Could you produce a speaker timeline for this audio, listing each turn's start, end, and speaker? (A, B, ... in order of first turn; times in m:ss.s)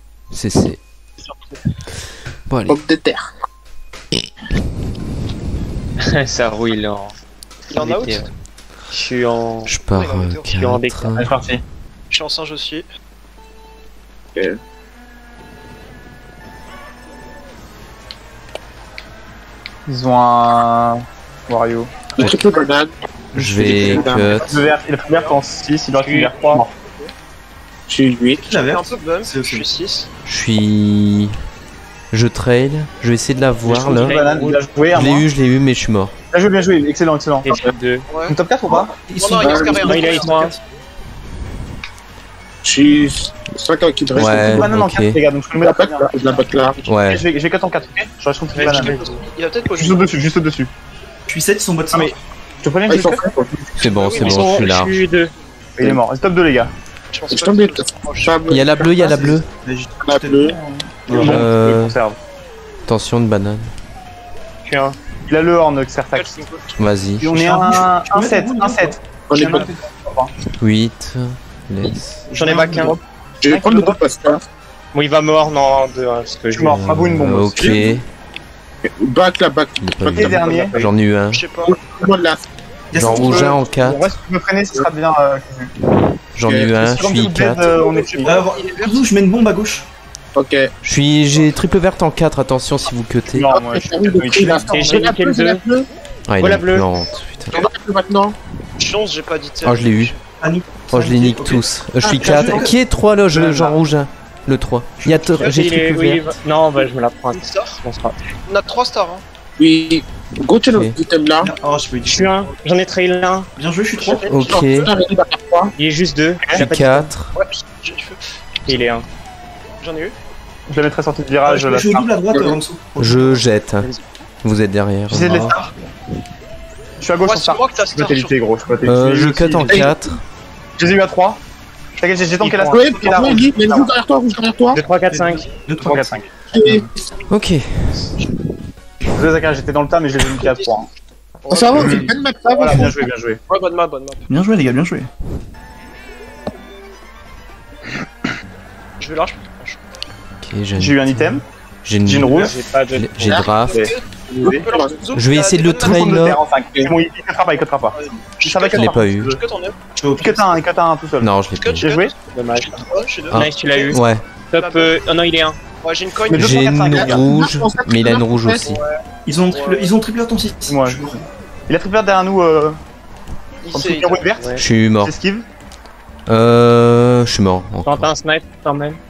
0:00.3-0:00.8 A
0:02.5-0:02.8 A
0:02.7-0:03.3 B
0:06.0-0:07.1 C
0:07.7-0:08.3 D
0:07.7-0:08.3 C
0:08.9-0:09.7 C
0:09.6-0:11.3 A
0:09.9-0:10.5 D
0:10.5-0:11.2 C
0:11.2-0:11.6 E
0:12.1-0:12.8 D
0:19.9-0:22.1 E
0:22.1-0:24.7 B
0:23.3-0:24.5 A
0:23.4-0:24.3 F
0:24.4-0:26.7 E
0:25.1-0:25.4 D
0:25.9-0:26.6 C
0:26.7-0:27.1 D
0:27.9-0:28.5 B
0:28.4-0:29.6 F
0:28.5-0:30.1 D
0:30.2-0:31.3 A
0:32.1-0:34.2 A
0:33.6-0:35.3 E
0:33.9-0:35.1 C
0:34.0-0:34.6 D
0:34.9-0:36.2 A
0:36.3-0:37.5 E
0:37.4-0:38.1 C
0:38.1-0:38.3 D
0:38.3-0:39.0 E
0:38.7-0:40.6 F
0:39.2-0:40.5 D
0:39.4-0:40.0 B
0:39.8-0:40.5 C
0:42.6-0:44.7 B
0:44.1-0:45.2 A
0:44.4-0:46.4 E
0:45.6-0:46.8 B
0:46.8-0:47.2 A
0:47.0-0:49.0 E
0:48.5-0:49.2 C
0:48.6-0:50.1 D
0:49.8-0:50.7 E
0:51.3-0:52.2 F
0:51.9-0:53.2 E
0:52.9-0:53.8 B
0:53.8-0:55.0 A
0:53.8-0:54.7 D
0:54.2-0:55.3 C
0:55.8-0:56.7 E
0:57.1-0:58.4 D
0:57.3-0:58.8 B
0:58.5-0:59.5 A
0:58.8-1:01.5 F
1:00.0-1:00.6 B
1:01.1-1:02.2 E
1:01.2-1:02.0 A
1:02.9-1:03.7 A
1:04.6-1:05.0 C
1:05.3-1:06.4 E
1:06.1-1:06.8 D
1:06.8-1:07.3 A
1:07.2-1:10.3 E
1:07.3-1:09.8 F
1:09.3-1:09.7 B
1:10.5-1:12.3 A
1:12.3-1:13.0 F
1:12.3-1:13.0 C
1:12.5-1:14.0 E
1:13.4-1:14.4 B
1:14.9-1:16.8 C
1:16.5-1:17.9 E
1:16.6-1:18.0 A
1:18.8-1:20.7 B
1:19.8-1:21.4 A
1:20.1-1:20.8 E
1:20.5-1:20.9 C
1:21.3-1:21.8 D
1:21.6-1:22.5 B
1:22.9-1:23.6 F
1:23.0-1:24.2 A
1:23.0-1:25.7 E
1:26.3-1:27.7 A
1:26.4-1:26.7 B
1:26.7-1:28.3 E
1:27.7-1:28.2 B
1:28.0-1:29.0 D
1:28.2-1:29.9 F
1:30.3-1:30.7 B
1:30.8-1:33.4 A
1:33.3-1:34.7 E
1:33.4-1:35.9 B
1:34.3-1:35.1 F
1:34.7-1:35.6 C
1:36.3-1:37.6 A
1:36.4-1:37.0 C
1:37.5-1:38.4 B
1:38.8-1:40.2 D
1:39.6-1:40.2 A
1:40.4-1:43.8 F
1:40.9-1:46.4 A
1:42.0-1:42.7 B
1:44.9-1:45.6 F
1:45.5-1:48.3 C
1:47.3-1:47.8 D
1:48.4-1:49.2 D
1:49.6-1:51.5 B
1:50.7-1:51.0 A
1:51.4-1:52.4 F
1:52.0-1:53.5 C
1:53.6-1:54.3 F
1:54.0-1:54.5 D
1:54.3-1:54.9 A
1:54.4-1:55.7 B
1:55.8-1:56.5 C
1:56.5-1:57.4 A
1:56.6-1:57.1 F
1:57.3-1:58.8 D
1:58.7-1:59.0 C
1:59.8-2:00.1 D
2:00.7-2:02.1 E
2:01.4-2:03.4 F
2:02.3-2:02.6 B
2:03.0-2:03.9 A
2:04.4-2:05.5 A
2:05.1-2:05.7 E
2:07.0-2:09.9 E
2:07.2-2:08.4 D
2:08.8-2:10.2 A
2:09.7-2:09.9 B
2:10.8-2:11.4 E
2:12.0-2:13.9 E
2:12.4-2:12.8 C
2:12.6-2:14.8 B
2:14.7-2:15.5 C
2:15.1-2:16.2 F
2:15.8-2:16.8 E
2:16.5-2:16.9 B
2:17.3-2:18.1 A
2:19.1-2:20.9 E
2:20.4-2:20.8 D
2:21.4-2:22.1 D
2:21.5-2:23.0 B
2:21.7-2:23.4 E
2:23.5-2:24.2 D
2:24.3-2:25.1 F
2:29.0-2:29.8 D
2:30.4-2:33.9 A
2:30.8-2:31.4 E
2:32.0-2:32.5 E
2:32.2-2:33.4 C
2:33.2-2:33.8 B
2:33.5-2:36.1 D
2:33.7-2:34.6 E
2:34.4-2:35.1 B
2:35.1-2:36.4 A
2:35.8-2:39.4 E
2:37.9-2:39.8 D
2:38.7-2:39.4 A
2:40.0-2:40.6 F
2:40.2-2:42.1 E
2:41.2-2:41.8 A
2:41.6-2:44.0 D
2:42.3-2:45.6 C
2:43.3-2:44.2 A
2:44.6-2:45.0 D
2:45.8-2:46.6 D
2:46.3-2:48.8 A
2:46.3-2:47.3 E
2:46.9-2:48.8 B
2:48.6-2:49.0 D
2:49.2-2:51.3 F
2:49.5-2:49.9 D
2:50.7-2:51.1 E
2:51.7-2:52.8 E
2:53.6-2:54.4 D
2:53.7-2:55.5 E
2:54.6-2:55.1 A
2:56.3-2:58.1 A
2:57.8-2:59.0 C